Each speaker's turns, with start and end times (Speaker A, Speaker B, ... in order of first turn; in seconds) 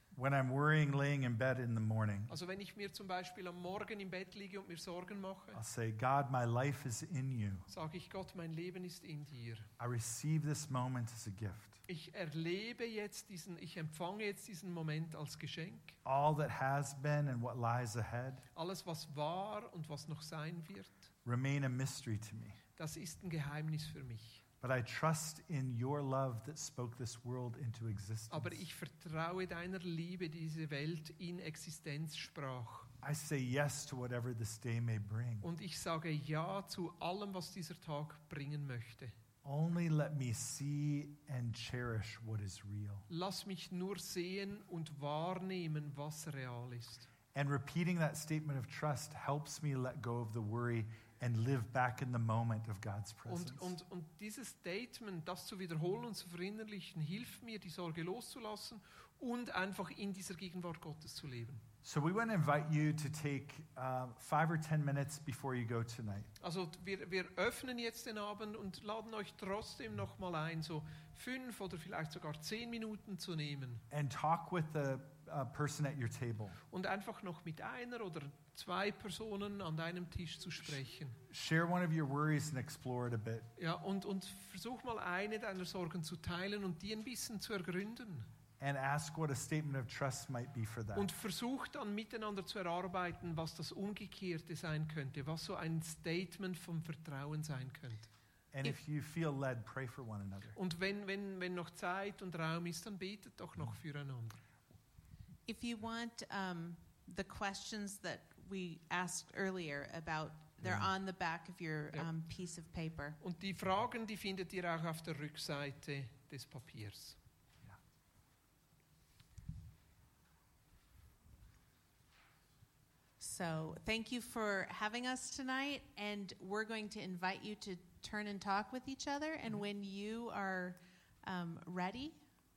Speaker A: 0.1-2.3, 5.5-7.7, 9.8-11.8, 16.0-18.4, 21.2-22.6, 24.6-28.6, 33.0-35.5, 39.4-43.1, 47.3-53.7, 61.8-66.3, 73.9-76.6, 81.3-83.5, 88.6-91.1, 98.5-100.6, 110.6-110.9
Speaker B: 2.3-5.6, 7.7-9.7, 11.9-16.0, 18.5-21.1, 22.8-24.4, 28.3-32.9, 35.4-39.1, 43.1-47.1, 53.3-61.6, 66.4-73.8, 76.7-81.2, 83.6-88.3, 90.9-98.1, 100.5-104.4, 113.2-117.2
Speaker C: 105.5-113.2, 123.2-132.2